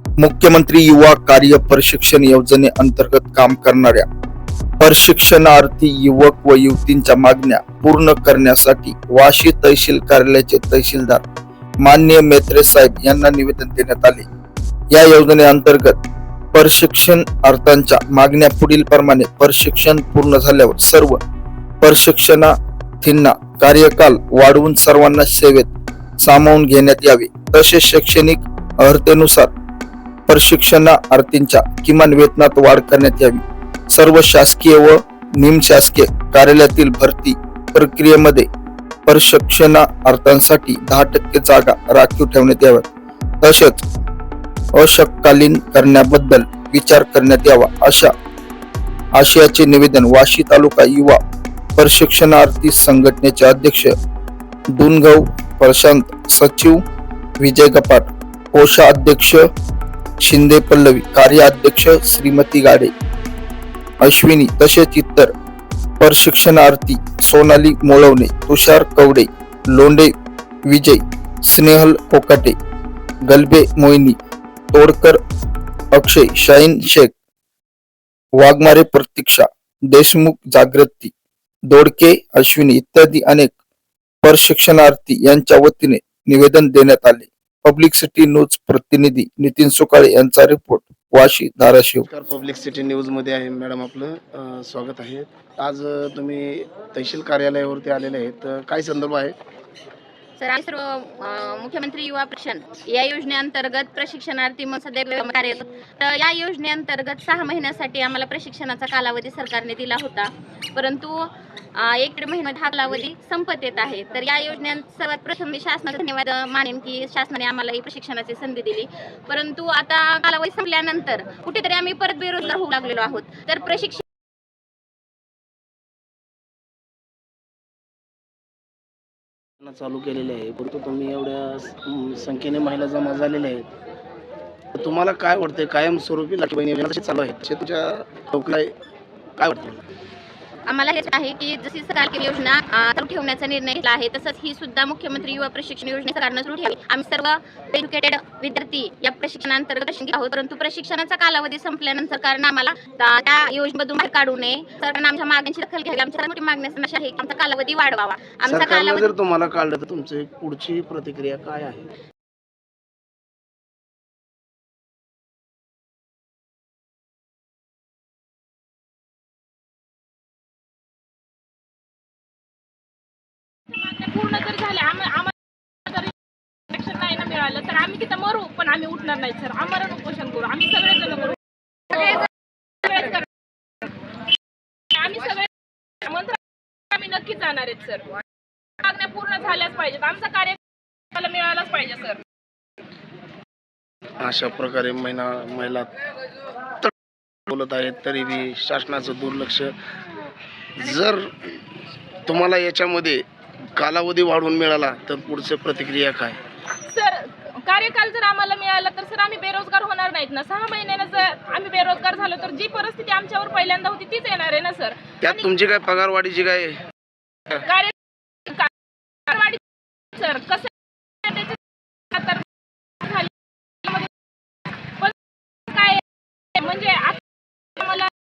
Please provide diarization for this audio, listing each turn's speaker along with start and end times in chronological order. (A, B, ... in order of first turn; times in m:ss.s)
0:00.2-0:04.0 A
0:04.8-0:11.2 A
0:11.8-0:14.3 A
0:14.9-0:16.0 A
0:16.5-0:21.2 A
0:21.8-0:25.7 A
0:26.2-0:29.5 A
0:30.3-0:38.4 A
0:39.0-0:42.9 A
0:43.4-0:43.8 A
0:44.7-0:48.1 A
0:49.2-0:51.2 A
0:51.8-0:53.9 A
0:54.7-0:56.8 A
0:57.4-0:59.5 A
1:00.2-1:02.9 A
1:04.0-1:05.3 A
1:06.0-1:10.1 A
1:10.7-1:12.6 A
1:13.3-1:14.2 A
1:14.7-1:15.2 A
1:15.9-1:17.1 A
1:18.4-1:21.1 A
1:21.7-1:23.5 A
1:24.2-1:32.0 A
1:32.1-1:39.3 B
1:40.4-2:04.0 C
2:09.6-2:13.7 B
2:14.7-2:18.8 B
2:19.4-2:19.8 B
2:20.7-2:39.1 C
2:38.5-2:41.9 B
2:53.7-2:55.3 D
2:55.9-2:56.1 D
2:56.7-3:01.4 D
3:01.9-3:02.2 D
3:02.8-3:03.2 D
3:04.9-3:05.5 D
3:06.0-3:06.4 D
3:06.9-3:08.2 D
3:08.8-3:10.6 D
3:11.1-3:12.2 D
3:14.2-3:15.9 B
3:17.5-3:19.8 B
3:20.8-3:21.6 B
3:22.2-3:23.2 B
3:23.8-3:26.4 B
3:26.9-3:35.4 D
3:35.2-3:36.8 B
3:37.6-3:37.9 D
3:39.3-3:39.6 D
3:40.1-3:40.7 D
3:41.2-3:41.6 D
3:42.1-3:42.4 D
3:43.0-3:43.3 D
3:43.8-3:44.1 D
3:45.7-3:46.0 D
3:46.6-3:47.2 D
3:47.8-3:48.1 D